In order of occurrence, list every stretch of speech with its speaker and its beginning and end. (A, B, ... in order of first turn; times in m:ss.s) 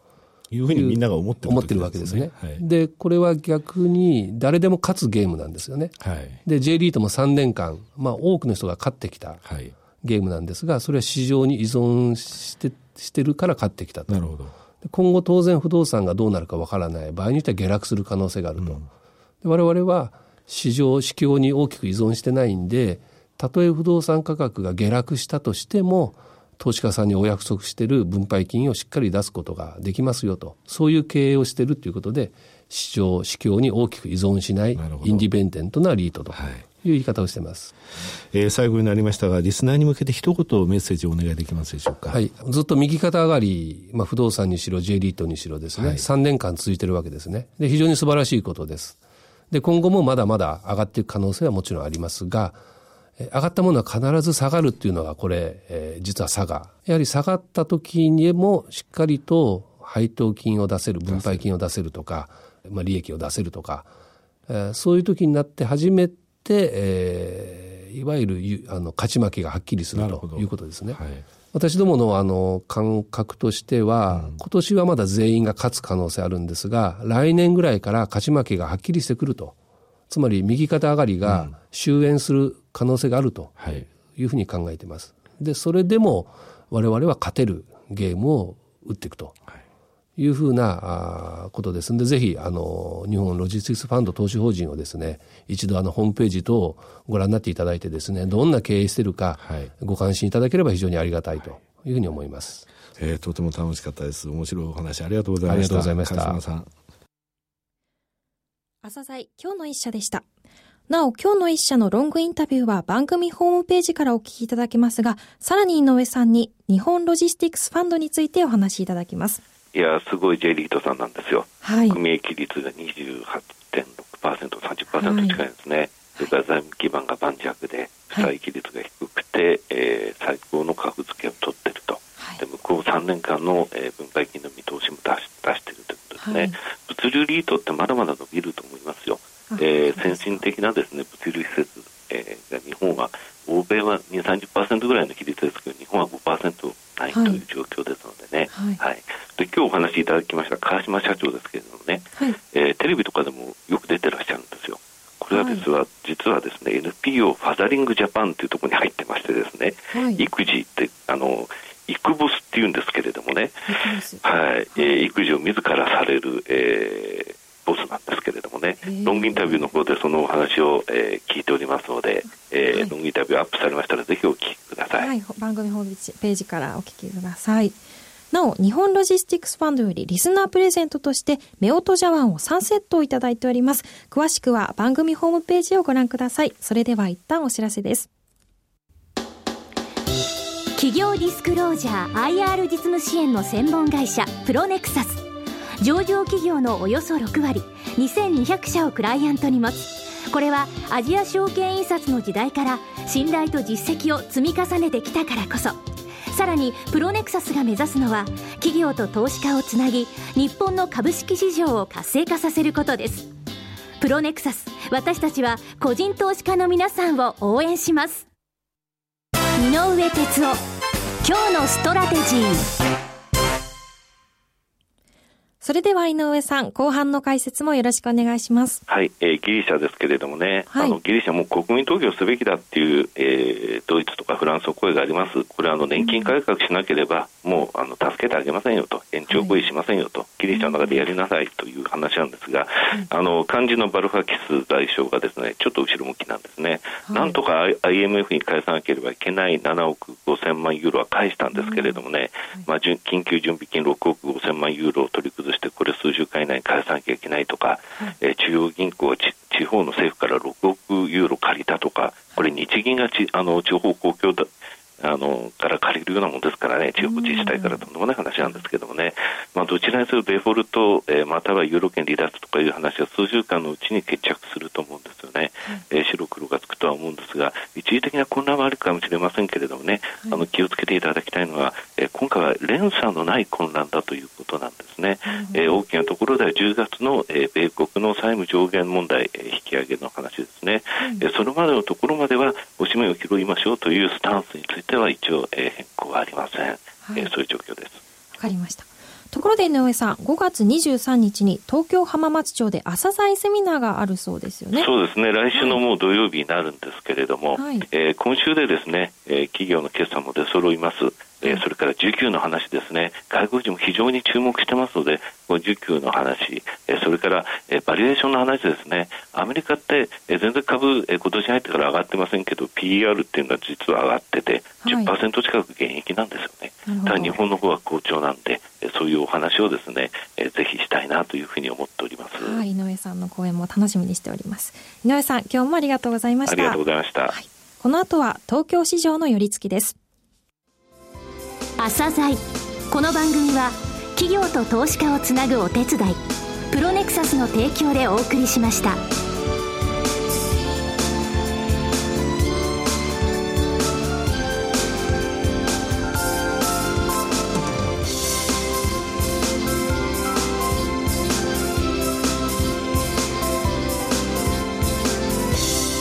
0:00.5-0:02.6 A
0:00.7-0:09.4 B
0:06.0-0:06.4 A
0:09.4-0:09.7 A
0:10.0-0:14.3 B
0:14.1-0:14.5 A
0:14.8-0:18.8 B
0:18.6-0:18.9 A
0:19.4-0:37.7 B
0:34.8-0:35.3 A
0:36.3-0:36.6 A
0:38.3-0:42.2 A
0:42.1-0:49.0 B
0:45.8-0:46.1 A
0:49.5-0:52.6 B
0:53.2-1:03.9 B
1:01.1-1:01.5 A
1:04.5-1:11.0 B
1:10.0-1:11.2 A
1:11.5-1:19.6 B
1:14.1-1:14.4 A
1:20.1-1:29.4 B
1:21.3-1:21.5 A
1:23.6-1:23.8 A
1:30.2-1:42.7 B
1:39.4-1:39.7 A
1:43.0-1:46.7 A
1:45.4-1:46.4 B
1:48.8-1:50.2 C
1:50.9-1:59.4 C
1:59.7-2:43.7 D
2:01.6-2:02.0 C
2:04.9-2:05.4 C
2:16.2-2:16.6 C
2:19.5-2:20.4 C
2:27.1-2:27.4 C
2:28.5-2:28.8 C
2:35.3-2:35.6 C
2:39.9-2:40.3 C
2:43.7-2:44.2 C
2:44.2-2:55.1 D
2:44.8-2:45.1 C
2:48.8-2:49.7 C
2:55.0-2:57.8 C
2:58.3-3:08.1 C
3:10.8-3:15.2 E
3:15.8-3:33.3 E
3:34.0-3:38.3 E
3:39.6-3:40.6 E
3:41.2-3:42.7 E
3:45.6-3:48.8 C
3:48.9-4:24.5 D
3:50.7-3:51.0 C
3:56.0-3:56.4 C
3:59.3-3:59.6 C
4:00.5-4:01.0 C
4:07.1-4:07.4 C
4:11.5-4:12.0 C
4:25.0-4:58.0 D
4:27.0-4:27.8 C
4:45.3-4:45.8 C
4:57.0-4:57.3 C
4:58.4-5:04.9 C
5:04.7-5:32.6 D
5:05.5-5:05.8 C
5:07.6-5:07.9 C
5:24.8-5:25.1 C
5:26.9-5:27.4 C
5:32.4-5:40.0 C
5:36.5-5:37.4 D
5:41.8-5:49.0 E